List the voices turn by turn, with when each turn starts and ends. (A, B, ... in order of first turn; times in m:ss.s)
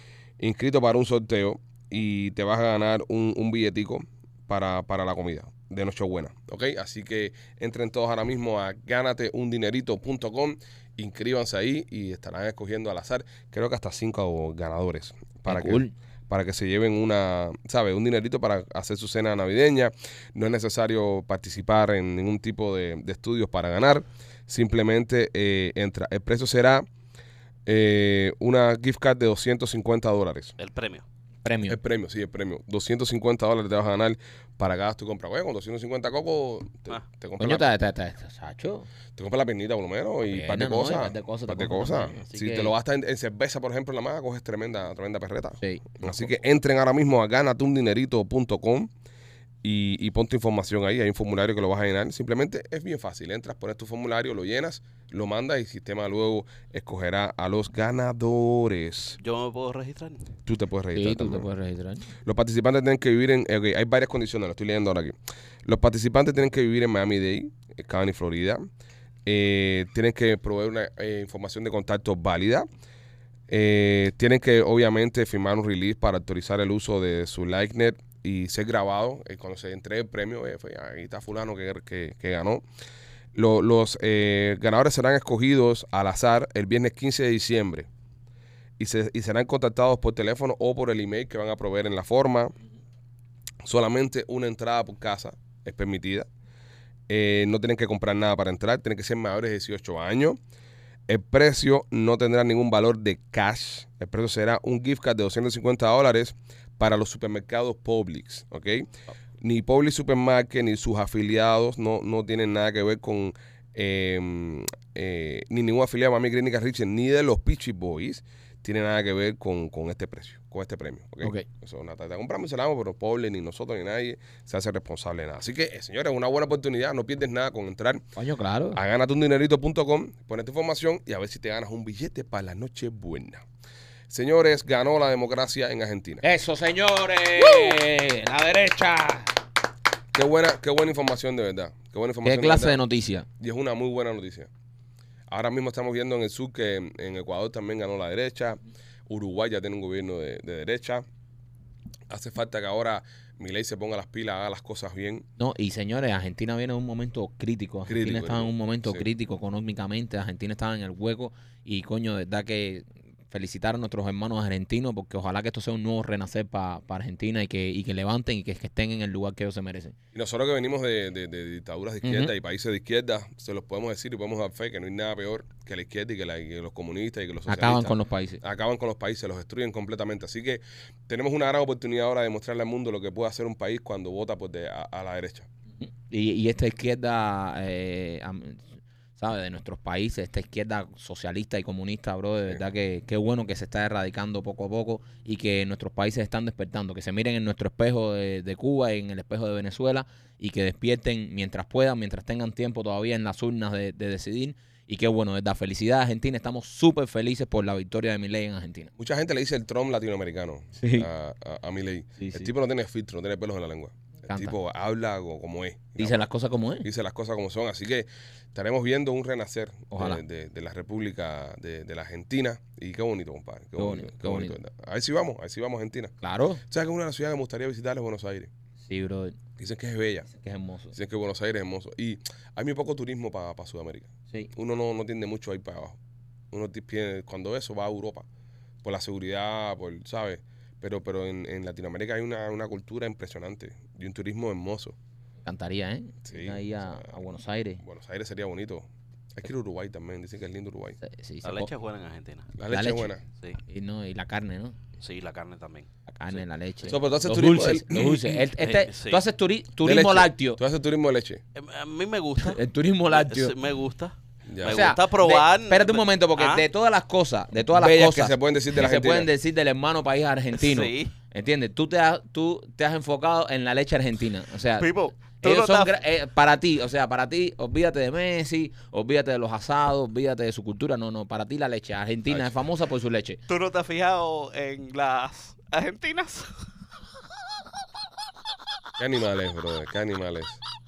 0:00.4-0:26.8 A
0:15.5-0:15.9 B
0:27.7-0:30.6 A
0:30.6-0:31.0 C
0:31.4-0:31.8 B
0:31.7-0:37.7 A
0:37.4-0:38.9 B
0:39.2-0:48.9 A
0:40.3-0:42.7 B
0:45.6-0:46.3 B
0:49.6-0:59.2 A
0:59.2-1:00.2 C
1:00.5-1:01.5 A
1:00.9-1:02.1 B
1:02.2-1:08.7 A
1:09.3-1:12.7 A
1:13.5-1:22.6 A
1:23.4-1:27.9 A
1:28.8-1:32.5 A
1:33.6-1:36.3 A
1:37.1-1:40.4 A
1:41.1-1:48.9 A
1:49.4-2:08.1 A
2:08.2-2:08.8 B
2:08.7-2:13.4 A
2:14.1-2:16.2 A
2:16.2-2:19.3 B
2:20.1-2:22.8 A
2:22.2-2:23.3 B
2:23.4-2:24.5 A
2:25.3-2:31.0 A
2:32.1-2:35.3 A
2:35.4-2:50.0 B
2:37.9-2:39.1 A
2:50.1-3:05.5 A
2:52.0-2:52.3 B
2:57.5-2:58.4 B
3:05.8-3:08.6 B
3:09.2-3:28.9 B
3:29.0-3:36.2 A
3:30.8-3:31.1 B
3:32.2-3:32.5 B
3:34.3-3:34.6 B
3:36.0-3:36.9 B
3:36.8-3:46.1 A
3:39.9-3:40.2 B
3:43.8-3:44.6 B
3:46.2-3:46.6 B
3:46.7-3:48.5 A
3:48.9-3:49.4 B
3:49.6-3:50.3 A
3:50.3-3:50.9 B
3:50.9-3:56.0 A
3:56.5-3:58.2 A
3:58.8-4:05.0 A
4:05.4-4:07.8 B
4:06.2-4:07.1 A
4:07.8-4:11.0 A
4:11.0-4:11.7 B
4:11.4-4:12.5 C
4:12.6-4:13.2 A
4:12.7-4:13.1 B
4:13.7-4:14.8 B
4:15.0-4:16.4 C
4:16.2-4:20.6 B
4:16.9-4:18.4 A
4:18.1-4:19.2 C
4:19.8-4:21.4 A
4:21.6-4:26.6 C
4:22.4-4:23.5 B
4:24.5-4:24.9 A
4:24.6-4:43.4 B
4:27.7-4:29.3 A
4:30.5-4:31.1 C
4:34.8-4:35.9 C
4:43.5-4:46.5 C
4:49.0-4:50.6 A